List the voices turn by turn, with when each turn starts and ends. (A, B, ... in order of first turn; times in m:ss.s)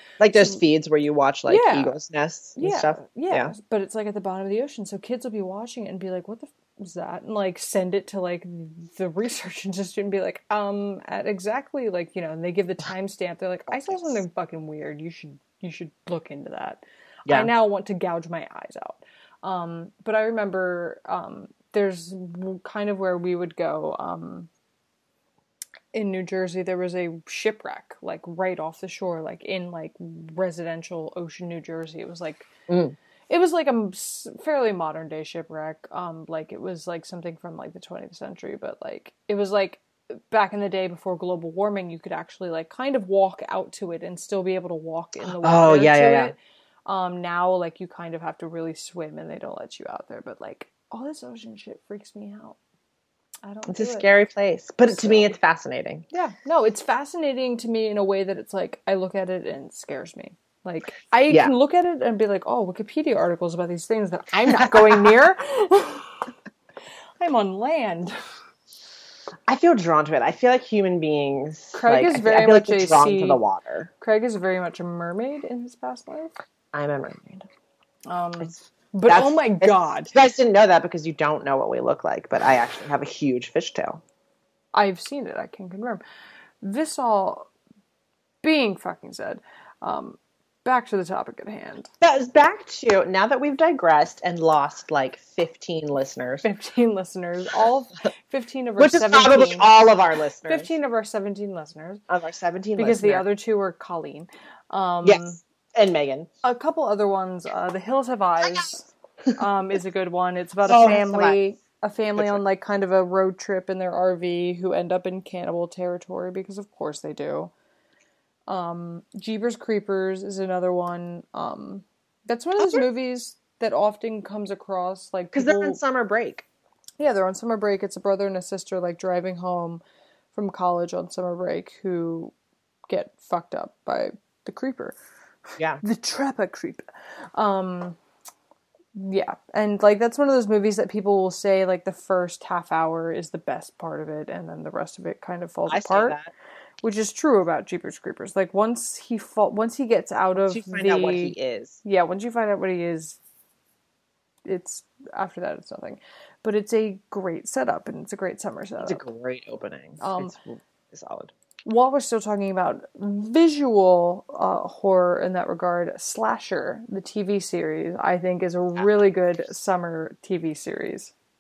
0:00.2-0:03.5 A
0:00.3-0:00.6 B
0:01.5-0:01.9 B
0:02.6-0:24.5 B
0:13.7-0:14.1 A
0:25.9-0:32.5 B
0:32.7-0:32.9 A
0:33.3-0:52.6 B
0:45.4-0:46.3 A
0:53.4-0:54.1 B
0:53.7-0:56.0 A
0:54.8-0:55.4 B
0:56.1-1:06.3 B
1:04.5-1:05.1 A
1:07.2-1:08.1 B
1:09.5-1:13.9 A
1:11.7-1:13.4 B
1:14.0-1:16.3 B
1:16.7-1:17.5 A
1:18.1-1:20.1 B
1:19.1-1:24.0 A
1:24.7-1:26.0 B
1:26.6-1:27.5 B
1:28.4-1:31.9 B
1:32.0-1:36.4 A
1:36.4-1:39.7 B
1:38.8-1:40.7 A
1:40.4-1:42.0 B
1:42.1-1:43.2 A
1:42.8-1:45.4 B
1:45.0-1:46.3 A
1:46.4-1:57.5 B
1:50.6-1:51.4 A
1:58.5-2:05.8 B
2:02.6-2:02.8 A
2:05.3-2:06.4 A
2:07.0-2:09.8 B
2:10.3-2:12.3 B
2:12.9-2:15.0 B
2:15.8-2:16.8 B
2:17.4-2:18.0 B
2:18.9-2:26.2 B
2:25.7-2:26.3 A
2:26.8-2:33.2 B
2:30.4-2:31.8 A
2:34.4-2:39.0 B
2:38.8-2:41.3 A
2:40.0-2:40.3 B
2:41.6-2:51.1 B